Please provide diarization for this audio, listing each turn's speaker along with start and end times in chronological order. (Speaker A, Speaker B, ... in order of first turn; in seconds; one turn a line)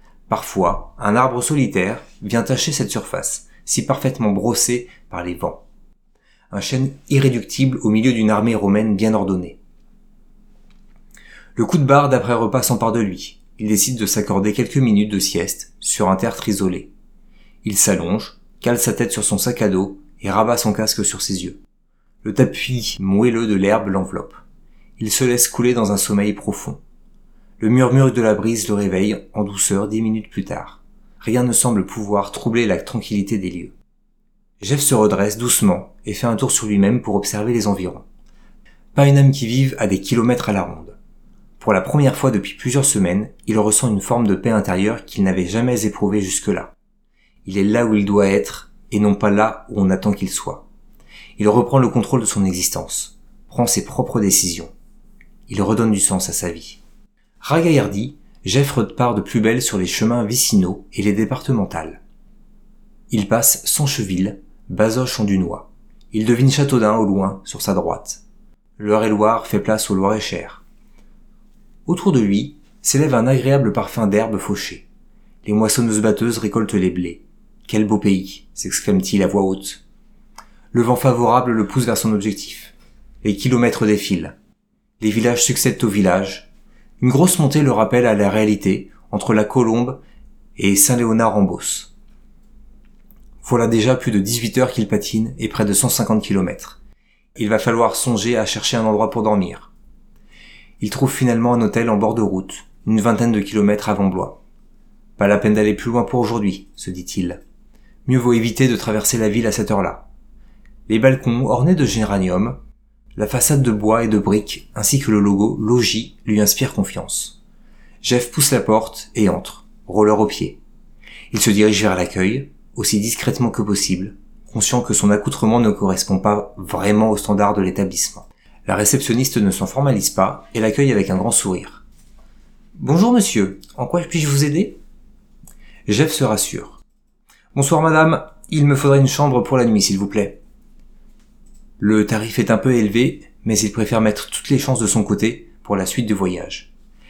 Speaker A: 0.3-5.6
Speaker A: 6.5-9.6
Speaker A: 11.6-16.9
Speaker A: 17.6-21.6
Speaker A: 22.2-24.4
Speaker A: 25.0-26.8
Speaker A: 27.6-33.8
Speaker A: 34.6-38.0
Speaker A: 39.0-41.0
Speaker A: 41.6-46.7
Speaker A: 47.5-50.7
Speaker A: 51.4-54.7
Speaker A: 55.5-56.8
Speaker A: 57.4-62.0
Speaker A: 63.1-68.2
Speaker A: 68.8-70.6
Speaker A: 71.9-74.9
Speaker A: 75.5-79.8
Speaker A: 80.7-84.3
Speaker A: 85.0-86.5
Speaker A: 87.0-90.0
Speaker A: 90.6-91.9
Speaker A: 93.4-96.8
Speaker A: 97.4-99.7
Speaker A: 100.8-104.4
Speaker A: 105.2-107.4
Speaker A: 108.1-110.1
Speaker A: 110.9-112.6
Speaker A: 113.2-117.4
Speaker A: 118.0-120.6
Speaker A: 121.3-131.8
Speaker A: 132.8-134.8
Speaker A: 135.9-136.8
Speaker A: 137.5-140.4
Speaker A: 141.8-146.7